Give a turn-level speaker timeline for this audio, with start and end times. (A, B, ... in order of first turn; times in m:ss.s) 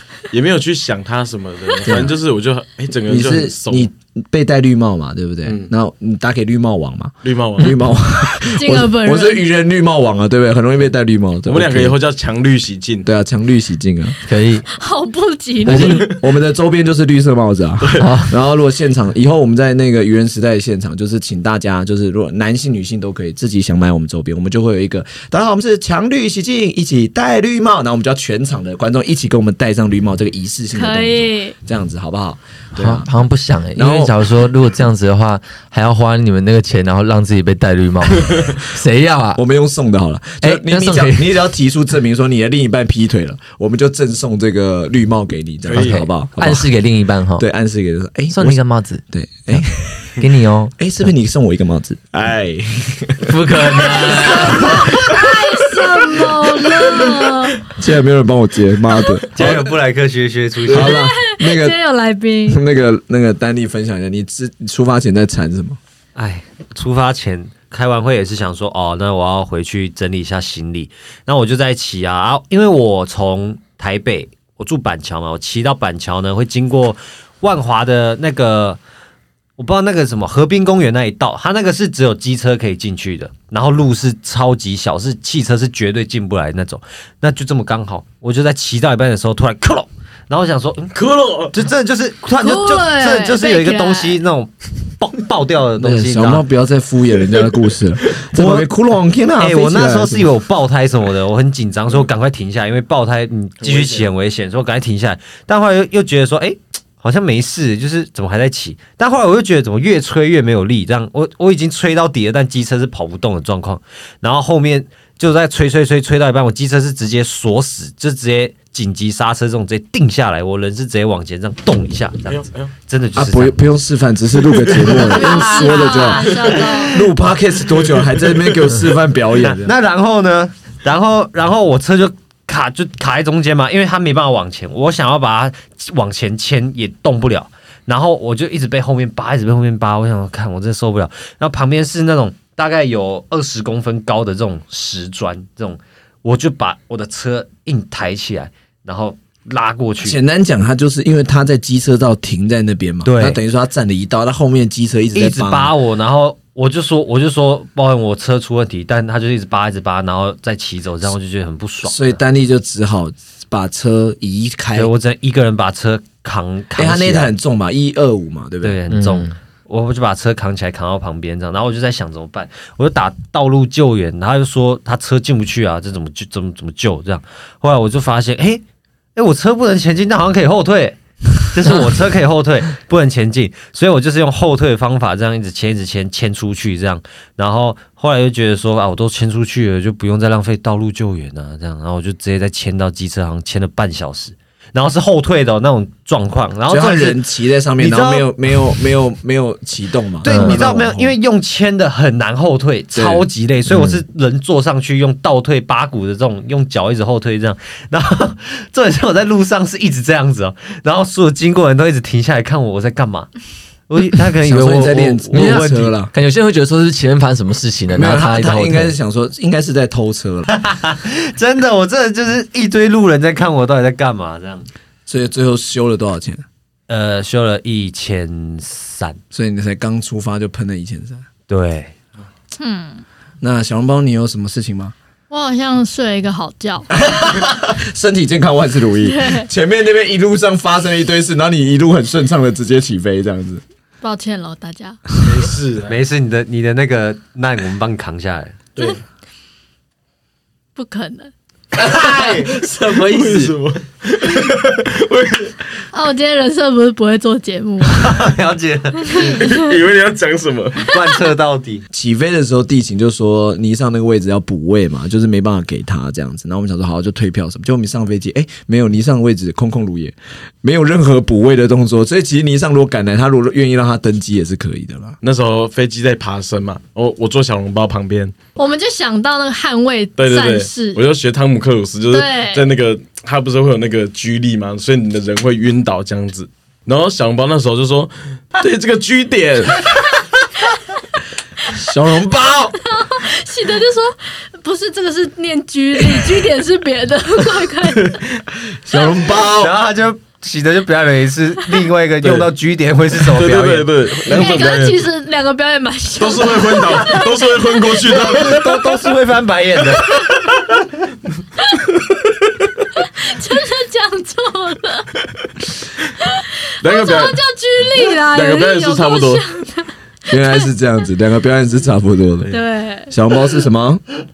0:00.3-0:03.9 A
0:01.8-0:02.1 B
0:03.1-0:12.0 B
0:05.4-0:05.7 A
0:07.2-0:07.8 A
0:08.5-0:09.4 C
0:11.5-0:13.1 A
0:13.0-0:14.2 B
0:14.2-0:14.6 D
0:14.8-0:16.1 C
0:15.6-0:33.1 B
0:15.7-0:16.1 D
0:17.8-0:18.1 A
0:18.0-0:18.3 D
0:30.7-0:31.6 C
0:32.8-0:39.4 D
0:33.8-0:34.1 B
0:39.4-0:46.7 B
0:40.4-0:41.3 D
0:45.7-0:46.0 A
0:45.7-0:47.5 D
0:47.4-0:50.2 B
0:48.3-0:50.7 D
0:50.8-0:55.1 B
0:53.2-0:54.9 D
0:54.1-0:57.6 C
0:57.7-0:59.7 B
0:59.3-1:01.0 E
1:00.7-1:01.8 B
1:00.7-1:02.6 C
1:02.5-1:05.8 B
1:06.2-1:18.8 E
1:19.6-1:31.0 E
1:30.9-1:31.6 A
1:31.5-1:36.4 E
1:32.4-1:34.2 C
1:35.8-1:40.3 B
1:38.3-1:38.7 E
1:39.4-2:03.7 E
1:43.6-1:44.1 A
2:02.3-2:02.7 A
2:03.2-2:09.7 B
2:04.6-2:05.0 A
2:05.0-2:07.1 E
2:05.1-2:07.1 C
2:06.3-2:06.6 A
2:07.8-2:08.7 A
2:09.4-2:30.2 E
2:30.0-2:35.7 B
2:33.0-2:33.4 E
2:35.2-2:42.2 E
2:41.9-2:44.9 B
2:44.8-2:47.3 E
2:46.8-2:48.8 B
2:48.6-2:58.6 E
2:48.9-2:49.3 D
2:59.2-3:17.2 E
3:16.7-3:21.1 B
3:17.8-3:18.3 E
3:20.2-3:33.3 E
3:20.2-3:20.6 D
3:23.0-3:23.3 B
3:23.7-3:24.0 D
3:33.9-3:35.9 E
3:34.4-3:36.1 B
3:35.3-3:39.0 D
3:38.0-3:40.5 B
3:40.5-3:44.7 E
3:45.1-3:46.4 B
3:46.9-3:49.2 E
3:49.3-3:51.3 B
3:51.5-3:51.9 E
3:52.6-3:53.0 C
3:53.4-3:55.0 B
3:55.3-3:56.9 C
3:57.0-4:03.6 B
3:59.0-3:59.5 C
4:04.0-4:05.2 C
4:05.2-4:06.0 A
4:05.9-4:08.6 E
4:08.8-4:09.0 A
4:10.8-4:11.3 C
4:11.8-4:13.5 E
4:11.8-4:15.6 A
4:15.9-4:18.2 C
4:17.9-4:19.3 E
4:19.1-4:19.6 C
4:19.3-4:20.9 A
4:20.8-4:21.9 E
4:21.9-4:35.2 B
4:35.2-4:38.3 A
4:38.6-4:41.0 C
4:40.2-4:49.9 A
4:42.1-4:42.7 C
4:51.7-4:52.8 B
4:52.9-4:58.3 C
4:58.8-4:59.7 B
4:58.9-4:59.3 C
4:59.5-5:04.5 E
5:02.2-5:02.5 A
5:03.2-5:05.0 A
5:04.3-5:08.6 C
5:06.2-5:08.8 A
5:08.2-5:10.2 E
5:10.0-5:10.6 A
5:13.0-5:15.1 C
5:16.2-5:20.7 C
5:16.8-5:19.4 A
5:20.3-5:22.5 B
5:22.5-5:23.1 C
5:23.1-5:24.1 B